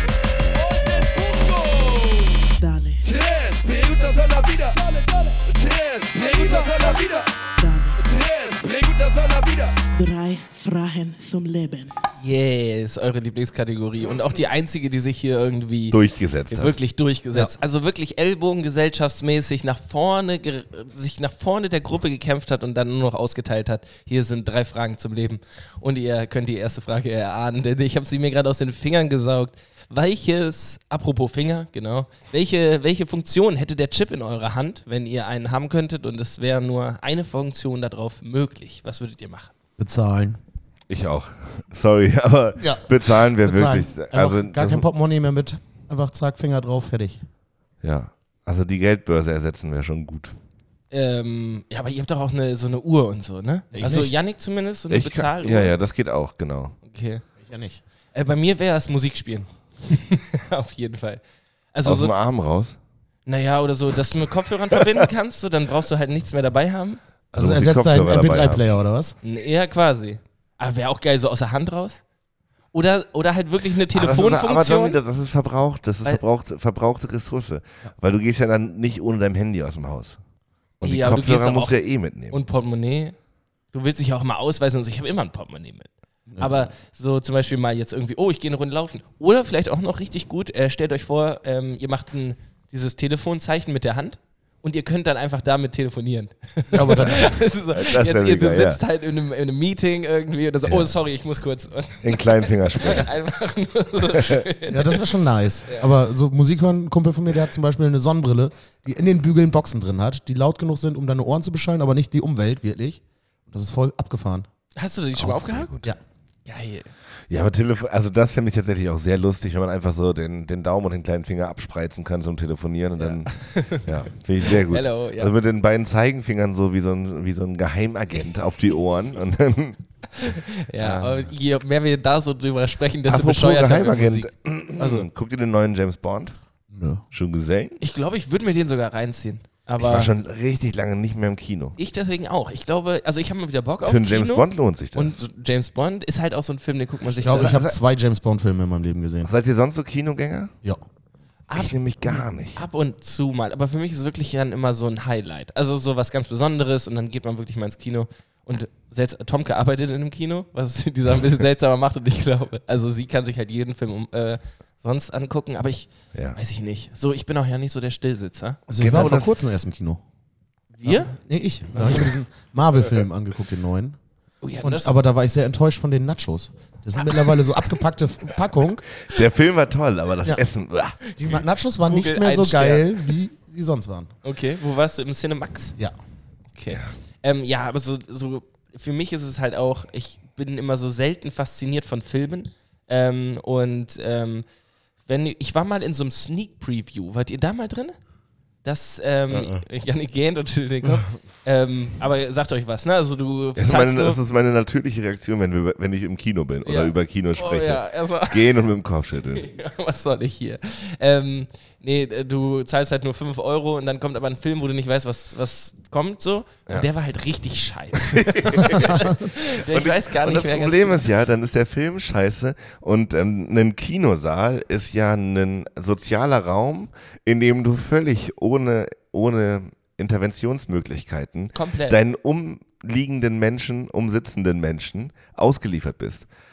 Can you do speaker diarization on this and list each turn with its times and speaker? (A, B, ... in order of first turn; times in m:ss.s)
0:00.5-0:10.0 A
0:02.6-0:03.0 B
0:07.6-0:08.0 B
0:10.0-0:11.9 B
0:12.2-0:39.5 C
0:15.9-0:16.8 D
0:39.8-0:40.4 E
0:40.9-0:44.8 D
0:42.6-0:47.2 E
0:47.8-0:50.3 D
0:50.9-0:55.7 C
0:53.7-0:54.1 E
0:54.9-0:56.8 D
0:56.9-0:57.3 C
0:57.4-0:57.8 E
0:58.1-1:01.2 C
1:01.7-1:02.1 C
1:01.8-1:02.8 D
1:03.2-1:07.0 C
1:07.3-1:08.6 D
1:07.3-1:09.2 E
1:09.2-1:12.0 C
1:12.7-1:15.0 C
1:13.9-1:20.2 D
1:20.8-1:22.4 D
1:20.8-1:21.8 C
1:22.3-1:23.2 C
1:23.7-1:45.9 C
1:36.7-1:37.3 E
1:37.0-1:38.8 D
1:42.0-1:43.1 D
1:44.0-1:44.4 D
1:44.7-1:54.5 E
1:54.8-1:55.7 C
1:55.2-1:55.9 D
1:56.4-1:56.9 C
1:57.3-2:09.8 D
2:03.0-2:05.3 C
2:10.1-2:15.1 C
2:10.8-2:11.3 D
2:13.1-2:16.4 D
2:16.7-2:17.0 E
2:17.1-2:17.8 D
2:17.8-2:20.1 C
2:19.8-2:21.8 D
2:21.8-2:27.6 C
2:23.8-2:25.2 D
2:27.1-2:27.8 D
2:27.2-2:29.3 E
2:29.2-2:30.5 D
2:31.5-2:49.1 C
2:31.5-2:32.6 D
2:48.7-2:50.0 E
2:48.8-2:49.3 D
2:50.8-2:51.1 C
2:50.8-2:54.0 E
2:51.8-2:52.1 C
2:54.4-2:55.0 C
2:54.6-2:58.8 E
2:59.1-3:01.0 D
3:01.1-3:03.2 C
3:01.1-3:04.1 E
3:04.2-3:05.7 C
3:06.5-3:14.4 C
3:15.1-3:18.0 C
3:18.6-3:24.2 C
3:19.3-3:19.6 D
3:23.6-3:29.5 D
3:26.6-3:28.6 C
3:29.3-3:41.1 C
3:38.0-3:56.3 D
3:51.5-3:52.0 C